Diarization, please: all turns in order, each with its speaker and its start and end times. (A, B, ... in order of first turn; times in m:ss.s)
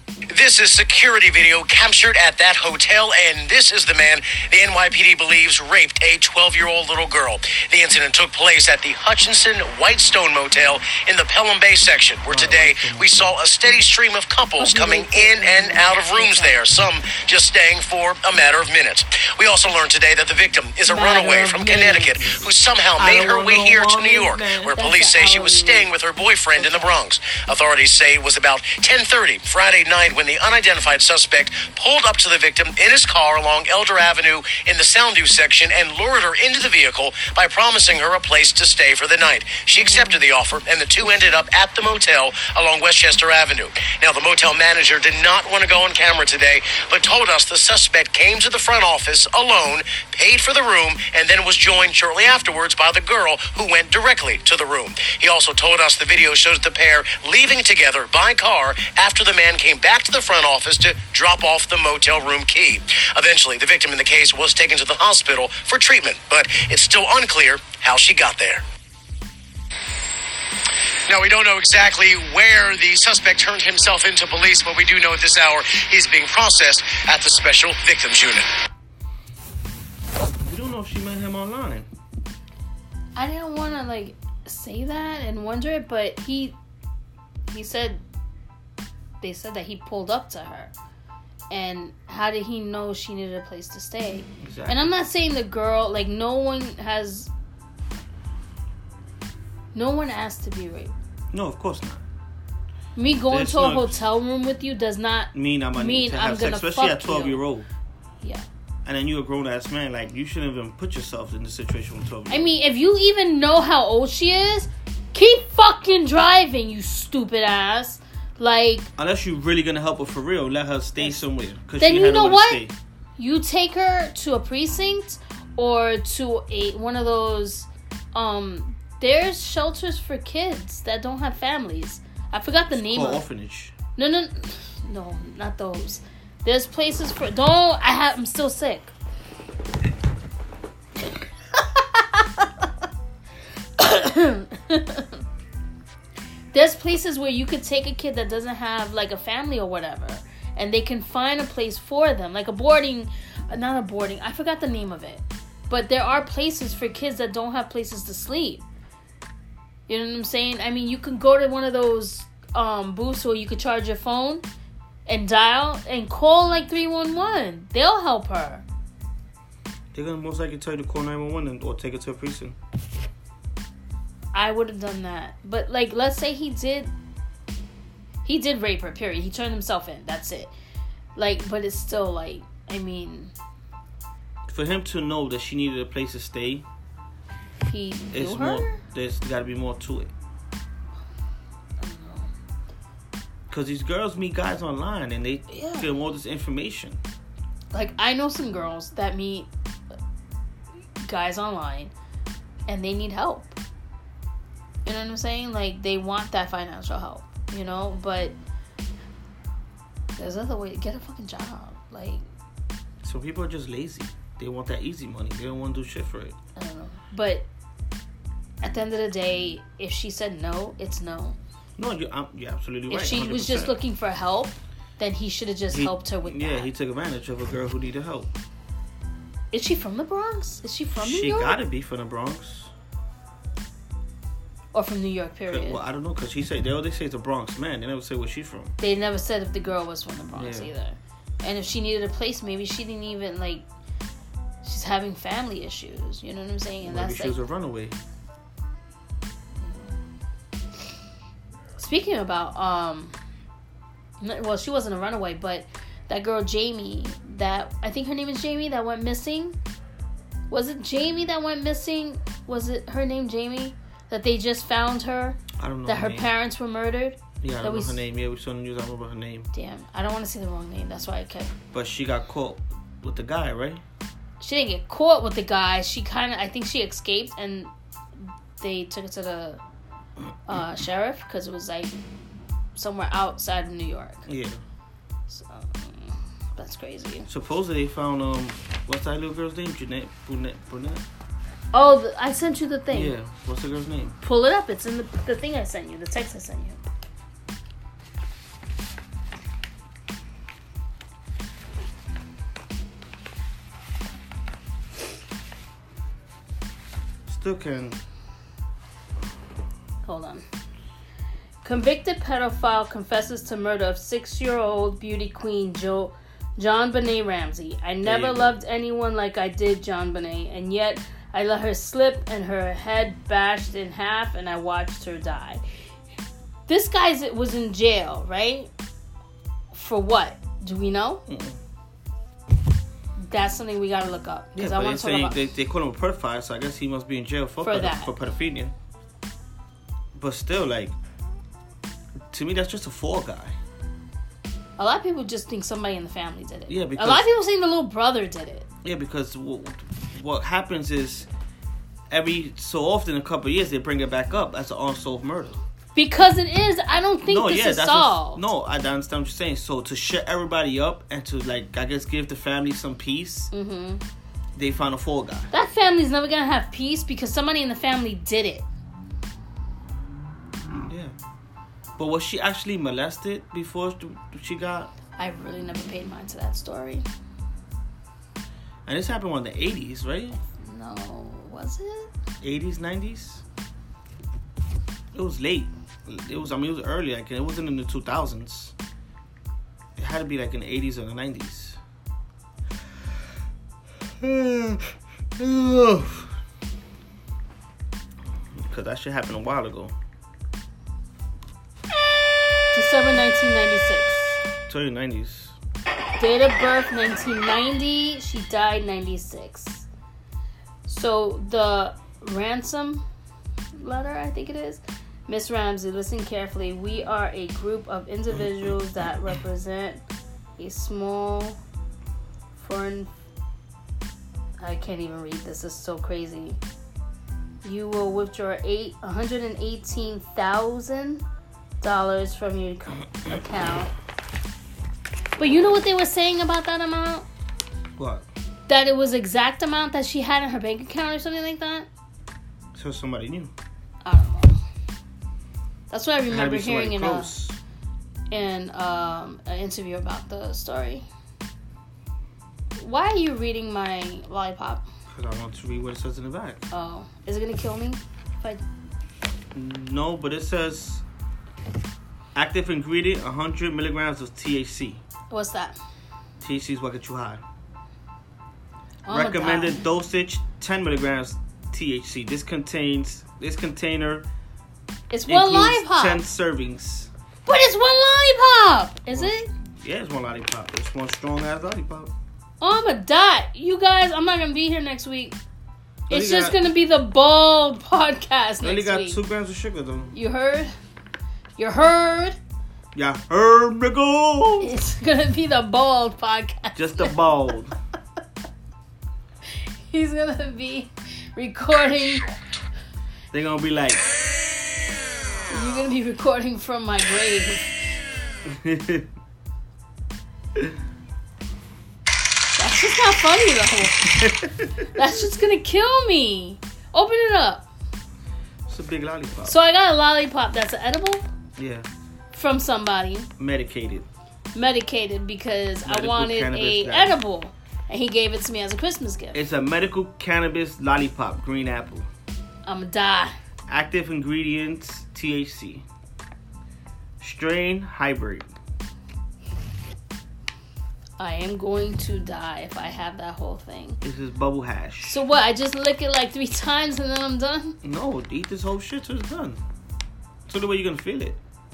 0:00.3-1:08.6 A
0:12.3-0:13.4 B
0:14.6-0:16.6 C
0:20.9-0:22.3 C
0:22.2-0:22.4 B
0:23.0-0:24.8 B
0:24.7-0:25.9 C
0:26.5-0:27.0 C
0:39.8-0:40.2 C
1:11.1-1:18.5 A
1:20.4-1:21.9 B
1:23.2-1:26.6 C
1:27.5-1:28.0 C
1:29.2-1:30.7 C
1:31.5-1:37.3 C
1:34.4-1:34.9 B
1:39.7-1:40.9 C
1:41.3-1:42.0 B
1:43.0-1:47.4 C
1:43.3-1:44.0 B
1:45.3-1:47.7 B
1:48.8-1:52.5 B
1:52.3-1:58.9 C
1:59.0-2:02.7 B
2:01.8-2:02.6 C
2:03.2-2:13.2 C
2:12.7-2:13.8 B
2:14.0-2:18.9 C
2:22.0-2:22.4 C
2:23.8-2:25.2 C
2:26.5-2:38.6 C
2:39.9-2:44.4 C
2:45.1-2:48.6 C
2:49.9-2:52.6 B
2:54.3-2:56.9 C
2:58.2-3:00.5 C
3:01.2-3:03.3 C
3:04.5-3:06.6 B
3:07.6-3:08.8 C
3:08.1-3:10.1 B
3:11.8-3:12.3 C
3:13.5-3:17.0 B
3:15.5-3:15.9 C
3:17.7-3:19.5 C
3:21.0-3:21.9 C
3:22.7-3:23.6 C
3:24.9-3:28.4 C
3:30.2-3:32.2 C
3:33.0-3:36.4 B
3:36.6-3:37.5 C
3:38.6-3:41.4 C
3:41.8-3:43.8 B
3:42.9-3:46.7 C
3:45.7-3:48.3 B
3:49.5-3:51.6 C
3:51.0-3:52.7 B
3:54.7-3:55.8 C
3:55.5-3:58.7 B
3:58.8-4:03.6 C
4:00.4-4:00.7 B
4:04.6-4:07.4 C
4:06.8-4:08.0 B
4:09.6-4:09.9 C
4:11.8-4:13.2 C
4:14.2-4:19.6 C
4:20.5-4:28.0 C
4:25.6-4:26.3 B
4:27.4-4:29.5 B
4:29.5-4:31.5 C
4:31.7-4:33.8 B
4:34.4-4:37.7 C
4:38.6-4:39.6 C
4:40.5-4:42.0 C
4:42.8-4:44.2 C
4:44.3-4:44.6 B
4:45.3-4:47.3 C
4:47.3-4:51.0 B
4:51.7-4:53.2 C
4:52.9-4:54.2 B
4:54.2-4:56.8 C
5:07.3-5:08.0 B
5:10.0-5:10.4 C
5:11.6-5:25.6 C
5:18.0-5:18.6 B
5:26.7-5:28.7 C
5:29.7-5:31.2 C
5:31.3-5:31.6 B
5:33.2-5:35.4 C
5:34.6-5:38.7 B
5:37.6-5:38.1 C
5:40.1-5:41.0 B
5:42.3-5:43.6 B
5:44.8-5:48.7 C
5:46.7-5:47.3 B
5:48.8-5:51.3 B
5:52.1-5:55.6 B
5:56.0-5:58.4 C
5:57.2-6:03.5 B
6:03.5-6:04.0 C
6:04.6-6:05.5 B
6:05.5-6:08.6 C
6:10.7-6:11.2 B
6:12.0-6:14.9 B
6:15.2-6:17.0 C
6:18.9-6:20.4 B
6:20.4-6:22.1 C
6:22.4-6:23.4 B
6:25.1-6:28.7 B
6:30.0-6:31.8 B
6:34.2-6:36.3 B
6:38.5-6:39.9 B
6:42.7-6:44.4 C
6:44.7-6:45.6 B
6:46.2-6:49.8 C
6:50.9-6:53.0 C
6:53.8-7:00.0 C
7:00.6-7:01.6 C
7:02.6-7:03.1 C
7:04.6-7:06.6 C
7:07.6-7:11.2 C
7:11.8-7:13.9 C
7:15.4-7:17.3 C
7:18.0-7:18.3 B
7:18.7-7:21.9 C
7:22.7-7:23.5 B
7:24.0-7:24.6 C
7:25.9-7:27.3 C
7:26.3-7:27.6 B
7:28.3-7:31.1 C
7:32.8-7:34.9 C
7:35.1-7:36.6 B
7:36.7-7:38.6 C
7:39.5-7:41.0 B
7:42.4-7:45.0 B
7:45.3-7:45.8 C
7:46.4-7:47.4 B
7:49.1-7:49.8 C
7:49.1-7:54.3 B
7:55.1-7:56.2 C
7:55.3-7:57.1 B
7:57.5-7:59.5 C
7:59.1-8:02.1 B
8:02.6-8:05.4 C
8:06.1-8:06.6 B
8:06.1-8:09.2 C
8:08.6-8:10.1 B
8:10.1-8:10.7 C
8:11.6-8:12.4 C
8:12.9-8:14.7 B
8:14.6-8:17.2 C
8:16.8-8:17.8 B
8:19.9-8:22.3 C
8:23.3-8:24.0 B
8:25.5-8:27.7 C
8:28.4-8:29.1 B
8:32.5-8:34.3 C
8:34.2-8:34.7 B
8:34.9-8:37.7 C
8:38.7-8:39.6 B
8:39.4-8:41.2 C
8:41.6-8:41.9 B
8:42.3-8:43.3 C
8:43.4-8:44.1 B
8:44.6-8:49.4 C
8:45.8-8:47.2 B
8:49.3-8:52.1 B
8:52.6-8:53.4 C
8:53.7-8:55.8 B
8:57.2-8:58.5 B
9:01.2-9:04.0 C
9:04.0-9:05.2 B
9:05.0-9:07.8 C
9:07.8-9:09.6 B
9:10.5-9:11.4 B